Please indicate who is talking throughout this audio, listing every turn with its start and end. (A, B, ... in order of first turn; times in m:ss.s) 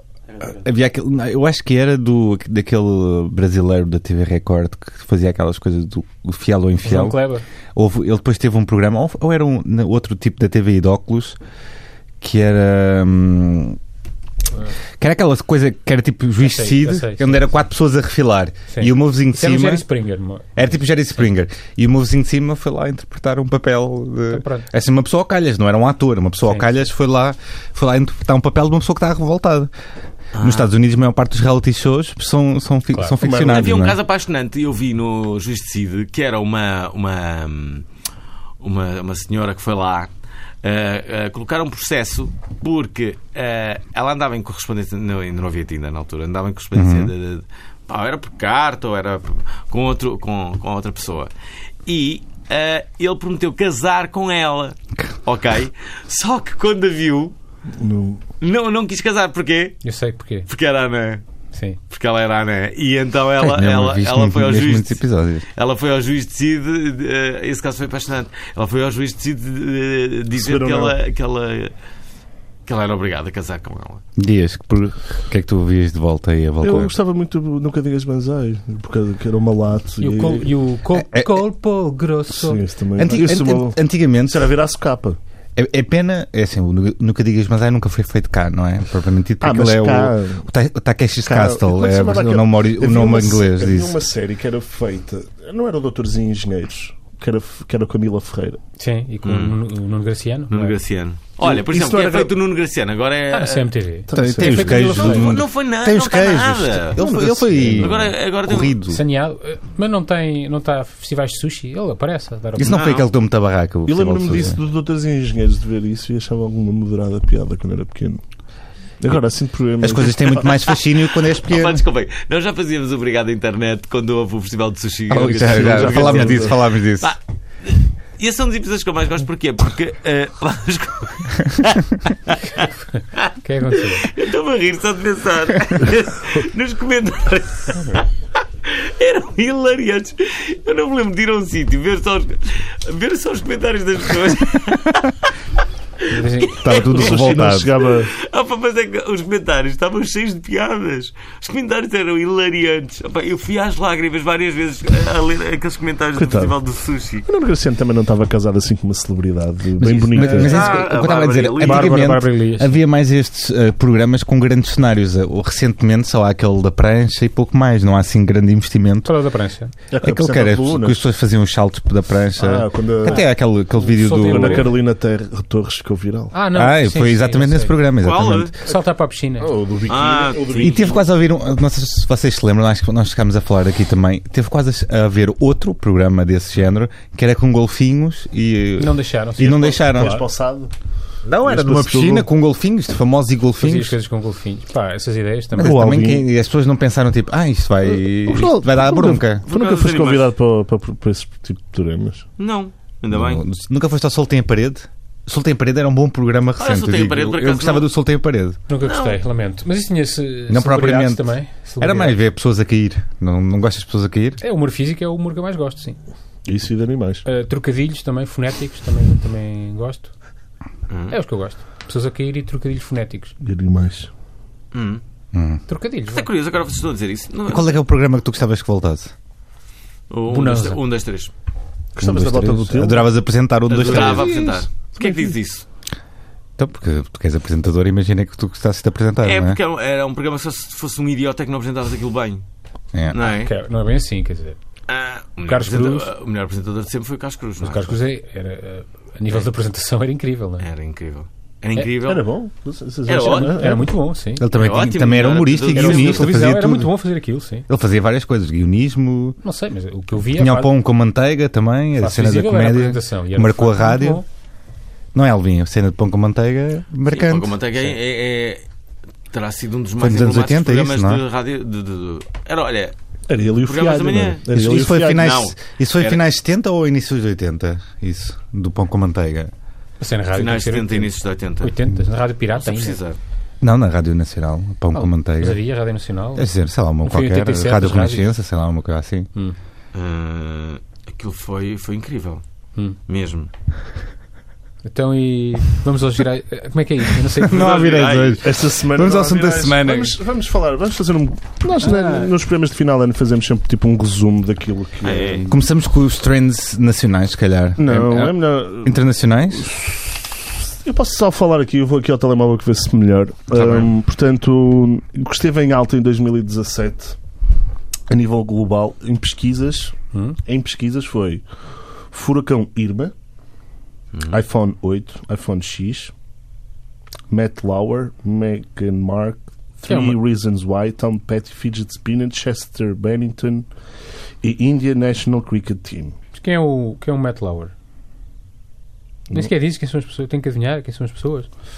0:00.4-0:07.2 A
0:06.8-0:07.4 B
0:07.7-0:11.4 A
0:12.2-0:13.8 A
0:15.0-0:19.8 A
0:16.4-0:17.6 B
0:18.7-0:20.7 B
0:20.6-0:29.7 A
0:24.3-0:24.7 B
0:26.4-0:26.8 B
0:30.3-0:30.7 C
0:30.4-0:34.0 A
0:32.9-0:33.2 B
0:33.2-0:33.9 D
0:33.3-0:37.8 C
0:38.6-0:40.1 C
0:40.6-0:51.3 C
0:46.7-0:47.1 A
0:51.8-0:57.3 C
0:57.7-0:58.2 D
0:58.4-0:59.8 C
0:59.8-1:00.5 B
1:00.5-1:01.2 C
1:01.5-1:01.8 B
1:01.9-1:05.0 C
1:03.4-1:05.4 A
1:05.5-1:11.7 C
1:10.3-1:11.0 D
1:12.6-1:14.0 C
1:14.2-1:16.9 A
1:16.6-1:20.5 D
1:20.0-1:22.6 B
1:20.9-1:21.4 A
1:22.3-1:25.2 D
1:23.0-1:24.5 A
1:25.6-1:34.0 A
1:29.4-1:30.4 D
1:31.2-1:38.6 D
1:38.8-1:40.7 B
1:39.2-1:39.6 C
1:40.5-1:43.7 C
1:41.4-1:42.3 D
1:43.3-1:45.3 B
1:44.1-1:45.0 D
1:44.1-1:49.0 A
1:45.0-1:47.1 C
1:47.0-1:48.1 D
1:47.6-1:48.8 C
1:48.9-1:52.8 B
1:52.6-1:54.6 A
1:52.6-1:53.1 C
1:53.8-1:58.2 D
1:59.0-2:00.5 D
1:59.8-2:01.8 A
2:00.4-2:18.1 C
2:05.1-2:07.1 A
2:05.4-2:06.6 D
2:13.0-2:14.1 B
2:18.6-2:25.3 C
2:26.0-2:37.3 C
2:26.1-2:26.6 B
2:26.6-2:27.7 A
2:26.8-2:28.1 D
2:36.1-2:36.5 D
2:37.2-2:40.5 D
2:39.8-2:49.1 A
2:40.2-2:40.8 B
2:40.2-2:42.0 C
2:41.6-2:42.8 B
2:49.0-2:49.7 B
2:49.9-2:51.0 D
2:50.0-2:54.7 A
2:52.4-2:53.2 D
2:53.1-2:54.7 B
2:54.2-2:56.3 D
2:56.3-2:57.8 B
2:56.5-2:58.5 A
2:58.0-2:58.5 C
2:58.6-2:59.5 B
2:59.4-3:01.0 D
2:59.9-3:01.0 C
3:00.6-3:10.2 A
3:08.8-3:10.2 B
3:09.9-3:10.7 D
3:11.2-3:14.0 A
3:11.4-3:12.3 D
3:13.6-3:15.8 B
3:15.6-3:19.4 A
3:15.6-3:16.2 D
3:17.9-3:22.3 D
3:19.4-3:20.3 C
3:22.4-3:23.4 C
3:23.1-3:28.6 A
3:26.6-3:27.9 C
3:28.7-3:32.2 B
3:28.8-3:29.2 C
3:30.5-3:34.4 A
3:34.4-3:36.0 B
3:36.4-3:37.2 D
3:37.2-3:40.1 B
3:40.9-3:41.1 C
3:41.1-3:43.3 B
3:43.4-3:44.1 D
3:44.7-3:45.0 C
3:45.3-3:45.6 A
3:45.7-3:46.3 B
3:46.1-3:47.8 C
3:47.5-3:49.1 A
3:50.1-3:51.3 C
3:50.3-3:50.8 B
3:51.9-3:53.1 D
3:52.0-3:54.6 A
3:53.7-3:55.6 C
3:53.8-3:55.3 D
3:56.6-3:59.6 A
3:59.2-4:02.4 C
4:03.1-4:03.5 C
4:03.2-4:04.6 B
4:04.9-4:07.9 C
4:05.4-4:06.1 B
4:07.6-4:10.6 B
4:10.6-4:12.3 C
4:12.0-4:13.9 D
4:13.0-4:13.7 C
4:13.4-4:14.4 B
4:14.4-4:16.9 A
4:14.5-4:16.3 C
4:15.7-4:17.6 B
4:17.7-4:19.4 A
4:19.4-4:20.7 B
4:20.2-4:24.2 A
4:22.0-4:24.2 B
4:25.1-4:27.6 A
4:27.1-4:28.6 C
4:29.3-4:32.9 C
4:30.0-4:31.2 A
4:33.3-4:35.2 D
4:33.6-4:36.2 C
4:34.5-4:39.5 A
4:40.0-4:43.0 B
4:40.3-4:41.8 C
4:42.5-4:43.2 C
4:43.6-4:45.6 A
4:44.9-4:48.2 B
4:46.4-4:49.3 A
4:49.9-4:52.4 C
4:53.1-4:53.5 C
4:54.8-4:57.6 B
4:57.4-5:00.2 A
4:57.4-4:58.4 C
4:58.4-5:05.5 D
5:01.8-5:02.3 B
5:05.0-5:05.5 C
5:05.4-5:09.7 A
5:07.8-5:09.0 D
5:09.5-5:17.2 D
5:13.6-5:13.8 C
5:13.6-5:13.8 A
5:18.1-5:21.4 D
5:20.1-5:20.4 B
5:22.1-5:23.1 D
5:24.1-5:24.4 C
5:24.3-5:26.1 D
5:27.3-5:33.7 D
5:29.9-5:30.2 B
5:34.4-5:36.2 D
5:36.3-5:37.7 B
5:39.3-5:41.5 B